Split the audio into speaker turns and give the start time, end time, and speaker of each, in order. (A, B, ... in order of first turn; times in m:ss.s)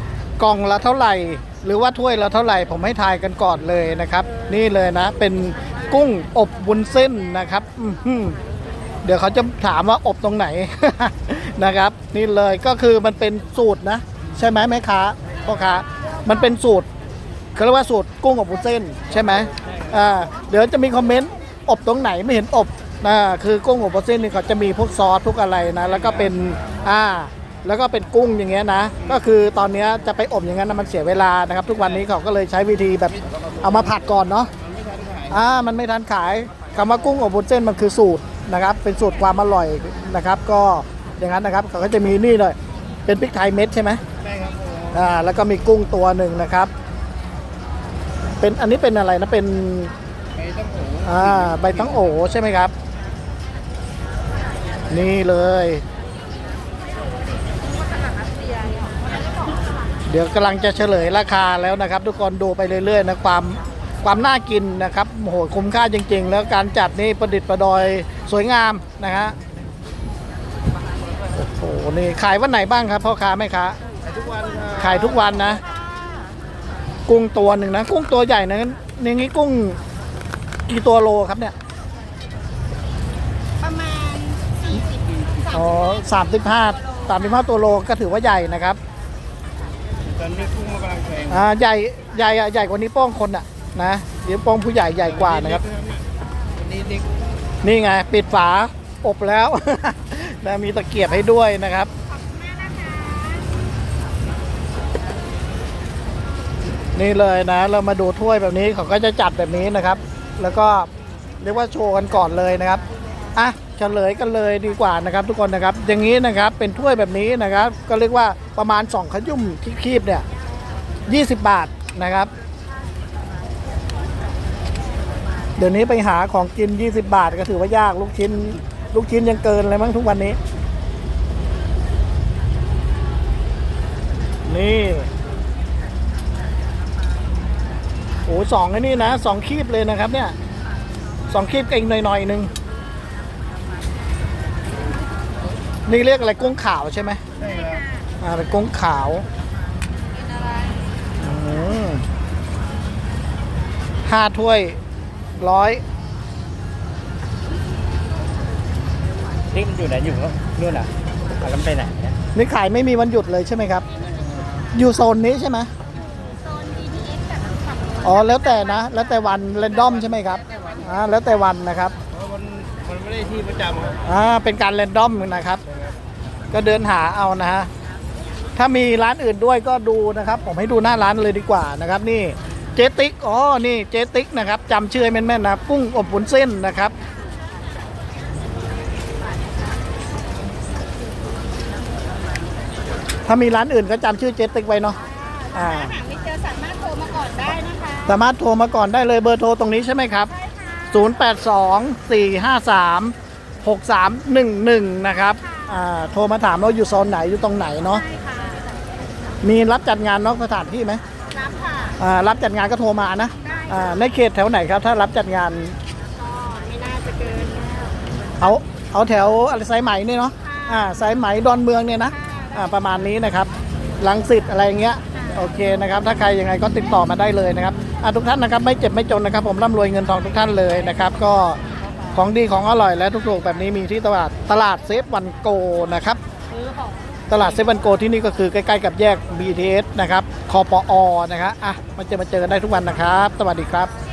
0:00.4-0:08.4 A
0:09.0-0:16.9 A
0:17.5-0:34.5 A
0:34.7-0:35.2 B
0:35.3-0:44.0 A
0:44.2-0:44.9 B
0:44.9-0:46.7 A
0:48.4-0:49.9 A
0:50.4-0:51.0 B
0:51.0-0:52.7 A
0:54.9-0:55.8 A
0:58.4-0:58.8 C
1:00.0-1:09.4 A
1:11.3-1:13.8 A
1:14.1-1:14.6 B
1:14.3-1:14.7 C
1:14.7-1:15.6 A
1:15.6-1:16.3 C
1:17.1-1:19.8 A
1:20.7-1:21.6 A
1:23.6-1:27.4 C
1:25.5-1:28.8 A
1:30.1-1:31.3 B
1:31.2-1:35.6 A
1:35.6-1:36.0 B
1:36.6-1:37.0 B
1:37.6-1:41.9 A
1:42.1-1:43.5 C
1:46.9-1:50.9 A
1:51.4-1:52.8 A
1:53.4-2:00.2 A
2:01.1-2:02.3 A
2:05.6-2:10.4 A
2:14.4-2:15.1 A
2:18.2-2:20.3 A
2:21.3-2:22.5 A
2:25.9-2:27.2 A
2:27.4-2:28.0 C
2:28.2-2:29.2 A
2:30.3-2:30.8 C
2:31.2-2:32.0 A
2:34.1-2:34.8 A
2:35.4-2:35.8 A
2:39.5-2:42.1 B
2:42.3-2:43.8 A
2:44.0-2:44.4 C
2:44.7-2:45.7 A
2:45.9-2:49.0 C
2:48.0-2:51.9 A
2:52.1-2:54.0 B
2:54.0-2:55.6 A
2:56.5-2:57.7 A
2:58.5-3:06.9 A
3:13.2-3:15.0 A
3:15.0-3:18.2 C
3:15.5-3:16.0 A
3:18.1-3:20.3 A
3:20.3-3:21.2 C
3:20.9-3:28.0 A
3:25.4-3:25.8 C
3:27.8-3:28.7 C
3:29.4-3:31.0 A
3:31.3-3:32.0 C
3:32.0-3:35.8 A
3:33.4-3:34.1 C
3:36.1-3:38.0 C
3:38.4-3:51.6 A
3:40.4-3:41.0 C
3:42.1-3:42.7 C
3:45.1-3:45.4 C
3:52.1-3:56.2 A
3:57.3-4:03.9 A